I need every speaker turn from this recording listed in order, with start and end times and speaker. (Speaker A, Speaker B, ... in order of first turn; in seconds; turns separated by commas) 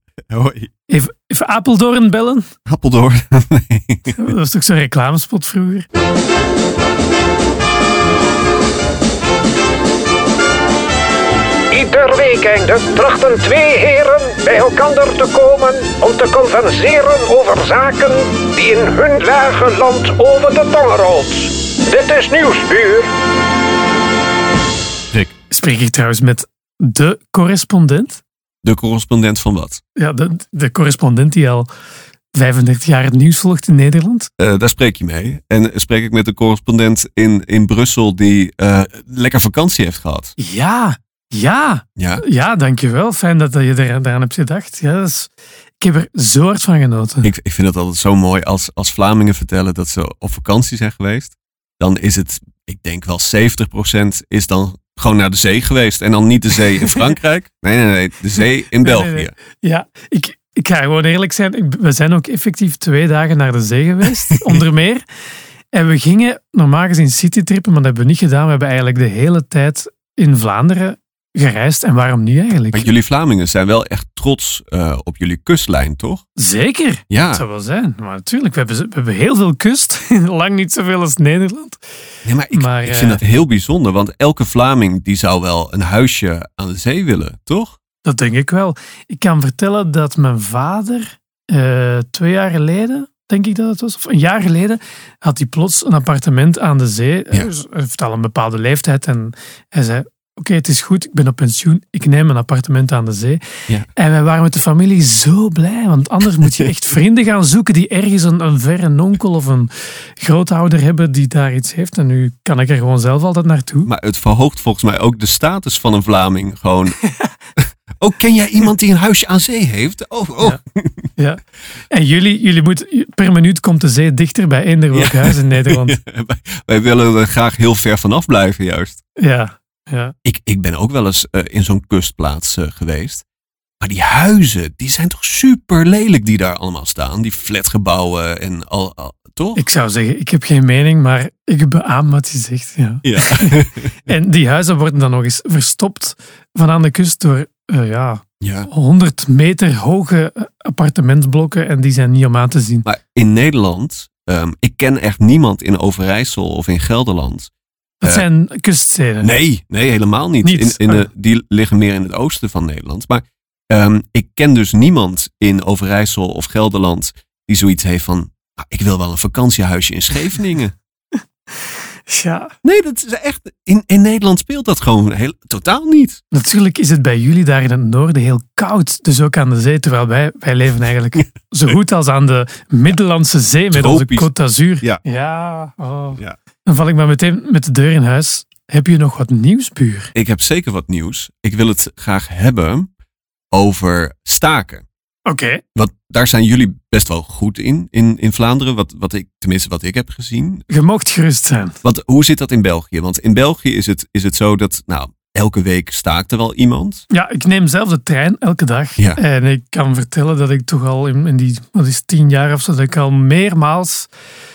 Speaker A: 0.3-0.7, Speaker B: 0.9-2.5, Speaker A: 2.6-4.3, Speaker B: 4.1-5.9, Speaker C: 11.7-23.1, Speaker B: 25.5-28.2, Speaker A: 28.6-29.8, Speaker B: 29.9-31.7, Speaker B: 32.3-34.3, Speaker A: 34.4-40.3, Speaker B: 40.4-47.3, Speaker A: 42.0-42.2, Speaker A: 47.2-59.3, Speaker B: 58.8-65.0, Speaker B: 65.7-72.9, Speaker A: 72.7-76.2, Speaker B: 76.3-81.8, Speaker A: 77.1-77.4, Speaker A: 82.2-87.8, Speaker B: 82.5-83.2, Speaker B: 88.0-103.4, Speaker B: 103.9-113.9, Speaker A: 106.4-106.7, Speaker A: 113.8-117.0, Speaker A: 117.6-121.1, Speaker B: 121.2-126.0, Speaker A: 124.9-129.0, Speaker B: 129.2-130.1, Speaker A: 130.2-133.2, Speaker A: 133.8-139.6, Speaker B: 139.6-152.8, Speaker A: 143.0-144.0, Speaker A: 148.4-148.7, Speaker A: 152.8-157.5, Speaker B: 158.0-159.3, Speaker A: 159.2-170.7, Speaker B: 160.4-161.1, Speaker B: 171.6-172.5, Speaker A: 172.6-176.2, Speaker B: 176.3-190.1, Speaker A: 183.7-184.3, Speaker A: 190.1-192.9, Speaker A: 193.5-194.8, Speaker B: 195.2-195.6, Speaker A: 195.8-200.7, Speaker B: 200.7-201.8, Speaker A: 201.8-207.0, Speaker B: 207.1-214.1